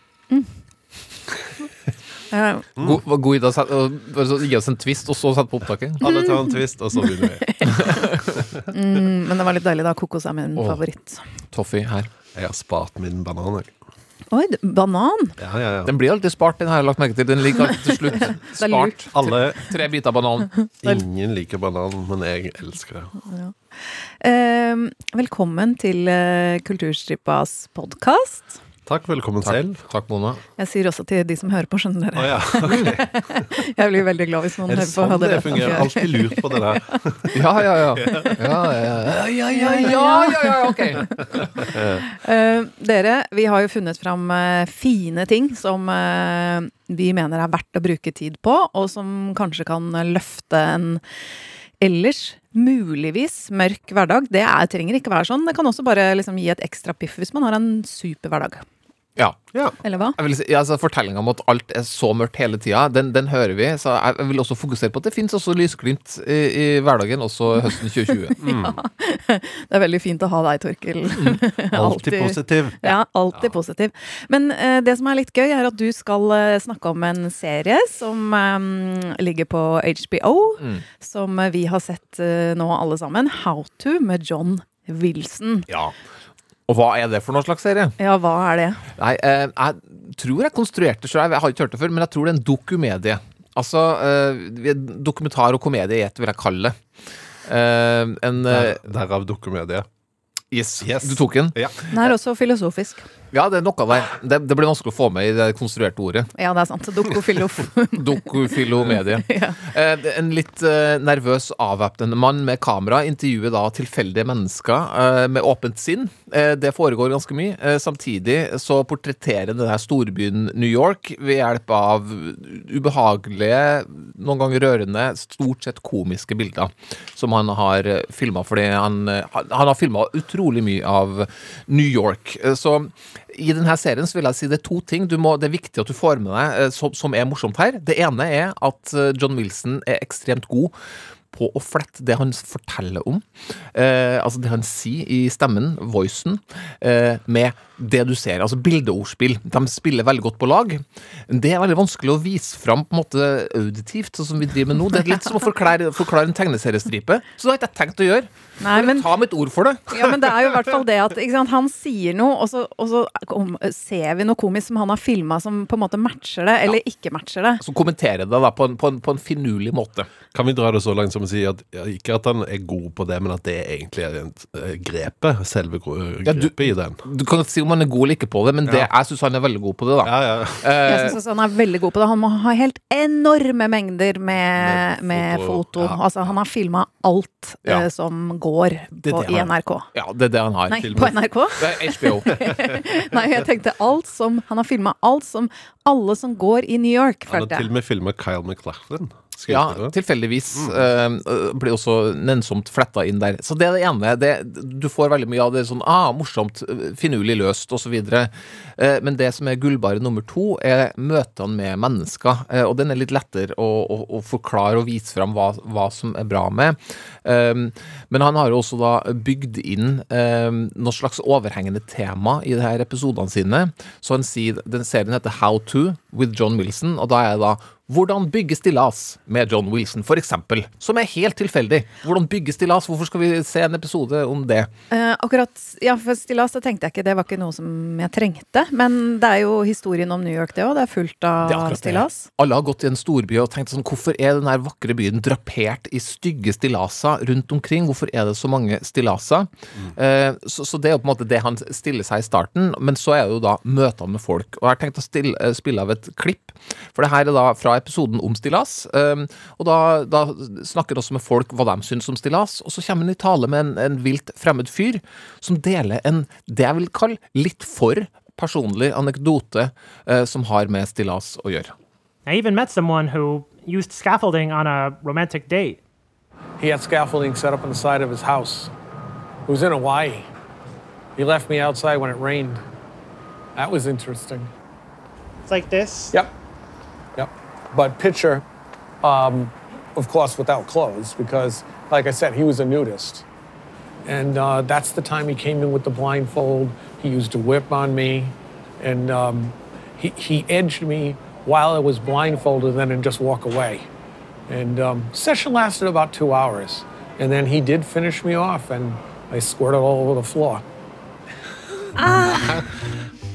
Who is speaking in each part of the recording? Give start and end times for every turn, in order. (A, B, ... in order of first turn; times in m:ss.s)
0:02.3-0:02.6 A
0:02.8-0:06.0 B
0:06.0-0:08.6 C
0:06.0-0:08.0 A
0:08.7-0:11.2 A
0:11.5-0:12.1 B
0:12.3-0:13.7 C
0:14.3-0:15.4 A
0:15.4-0:15.9 C
0:15.8-0:20.5 B
0:18.6-0:19.3 A
0:19.1-0:19.6 C
0:20.8-0:23.1 C
0:23.2-0:28.6 A
0:28.8-0:29.8 C
0:29.4-0:30.4 B
0:30.6-0:37.0 A
0:32.2-0:33.1 C
0:34.6-0:38.2 C
0:37.3-0:41.5 B
0:39.5-0:41.4 A
0:41.7-0:42.0 C
0:42.0-0:51.0 A
0:51.8-0:58.6 A
0:59.2-0:59.4 B
0:59.8-1:00.2 A
1:00.2-1:08.4 B
1:07.8-1:25.7 A
1:08.4-1:08.8 C
1:11.7-1:13.5 C
1:25.7-1:25.9 B
1:26.7-1:28.0 B
1:28.0-1:28.8 A
1:29.0-1:36.8 B
1:37.5-1:38.8 B
1:38.4-1:39.9 C
1:40.5-1:41.6 B
1:40.8-1:41.8 C
1:41.9-1:43.0 A
1:43.3-1:46.3 B
1:46.4-1:48.4 A
1:47.9-2:20.7 B
1:49.1-1:49.6 A
2:21.3-2:39.9 B
2:38.6-2:39.1 A
2:39.9-2:47.6 A
2:47.6-2:50.1 B
2:50.3-2:57.0 C
2:56.2-3:01.2 B
2:58.6-2:58.9 C
3:00.0-3:00.7 C
3:00.8-3:09.9 A
3:04.6-3:06.0 C
3:09.0-3:09.5 C
3:09.9-3:12.4 B
3:10.7-3:17.7 A
3:10.8-3:11.1 C
3:17.3-3:19.9 C
3:19.5-3:54.7 B
3:20.5-3:20.8 C
3:54.9-4:02.2 A
4:01.4-4:31.7 B
4:32.2-4:35.8 D
4:36.6-4:38.7 E
4:39.4-4:40.2 E
4:41.2-4:42.6 E
4:43.6-4:44.5 E
4:45.5-4:46.1 D
4:47.2-4:48.4 E
4:49.0-4:53.2 E
4:54.0-5:03.8 E
5:04.5-5:10.6 E
5:12.0-5:12.6 A
5:12.3-5:12.8 C